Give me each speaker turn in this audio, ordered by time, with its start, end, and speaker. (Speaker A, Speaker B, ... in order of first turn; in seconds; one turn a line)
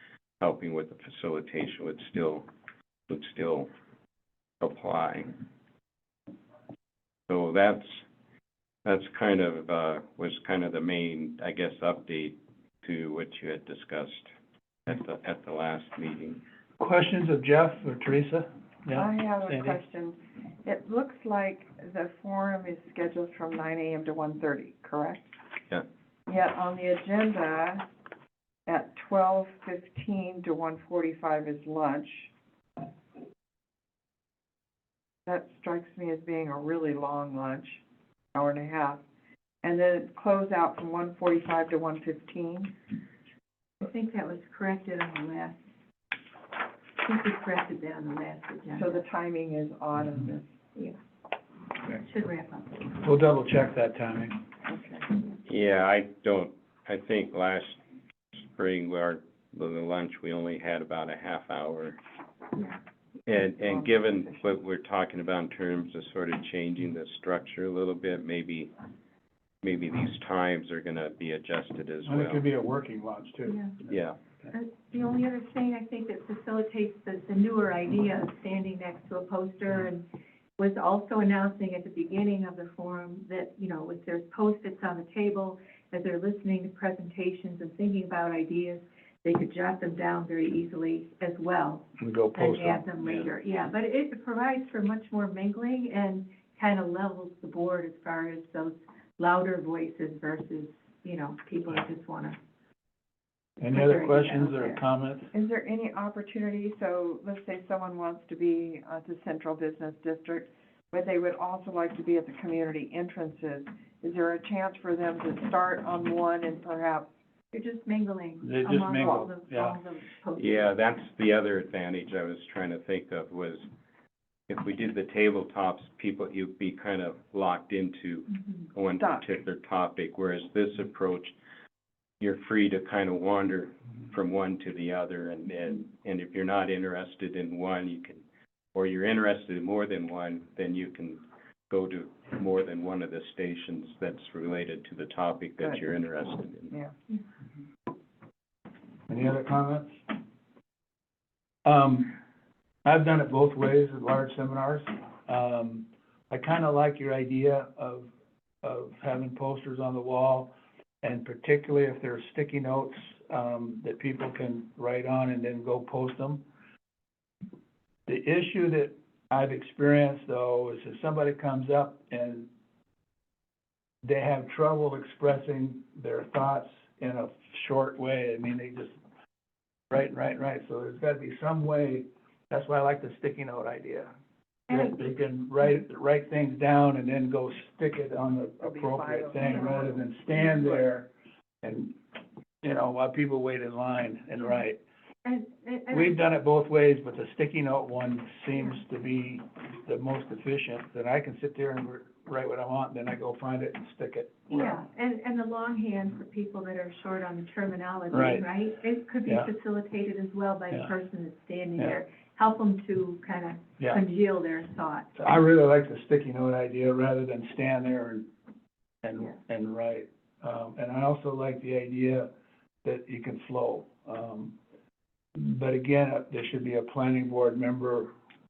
Speaker A: 0.4-2.5
Speaker A: 3.1-3.7
Speaker A: 4.6-5.3
Speaker A: 7.3-8.0
Speaker A: 8.8-14.3
Speaker A: 14.9-16.4
Speaker B: 16.8-19.8
Speaker C: 18.9-25.3
Speaker C: 26.3-27.9
Speaker C: 28.7-32.3
Speaker C: 35.3-37.8
Speaker C: 38.4-39.0
Speaker C: 39.6-42.7
Speaker D: 43.8-45.6
Speaker D: 47.0-49.0
Speaker C: 48.7-50.5
Speaker D: 51.9-52.8
Speaker B: 53.0-54.4
Speaker C: 54.7-55.1
Speaker A: 55.5-57.8
Speaker A: 58.5-62.0
Speaker A: 63.3-68.7
Speaker C: 63.4-64.6
Speaker A: 69.6-72.5
Speaker B: 72.0-74.5
Speaker D: 73.5-73.7
Speaker A: 73.9-74.2
Speaker D: 74.5-80.0
Speaker D: 80.6-102.4
Speaker B: 92.0-92.8
Speaker A: 93.0-93.3
Speaker B: 103.6-105.3
Speaker D: 103.7-104.8
Speaker C: 105.3-117.1
Speaker D: 117.5-120.8
Speaker B: 118.4-119.8
Speaker A: 120.4-123.7
Speaker A: 124.5-131.3
Speaker C: 129.0-129.3
Speaker A: 132.2-138.2
Speaker A: 138.8-146.8
Speaker B: 149.1-150.0
Speaker B: 151.7-152.2
Speaker B: 152.8-158.1
Speaker B: 158.6-166.4
Speaker B: 168.1-172.5
Speaker B: 174.0-178.9
Speaker B: 179.9-184.1
Speaker B: 184.7-191.1
Speaker D: 184.7-185.0
Speaker C: 188.6-190.9
Speaker D: 189.4-189.9
Speaker B: 191.6-192.0
Speaker B: 192.6-194.8
Speaker D: 195.2-196.2
Speaker B: 195.9-204.8
Speaker D: 204.5-215.1
Speaker B: 208.1-208.5
Speaker B: 215.2-218.3
Speaker B: 219.0-222.3
Speaker B: 222.8-224.6
Speaker B: 225.3-228.1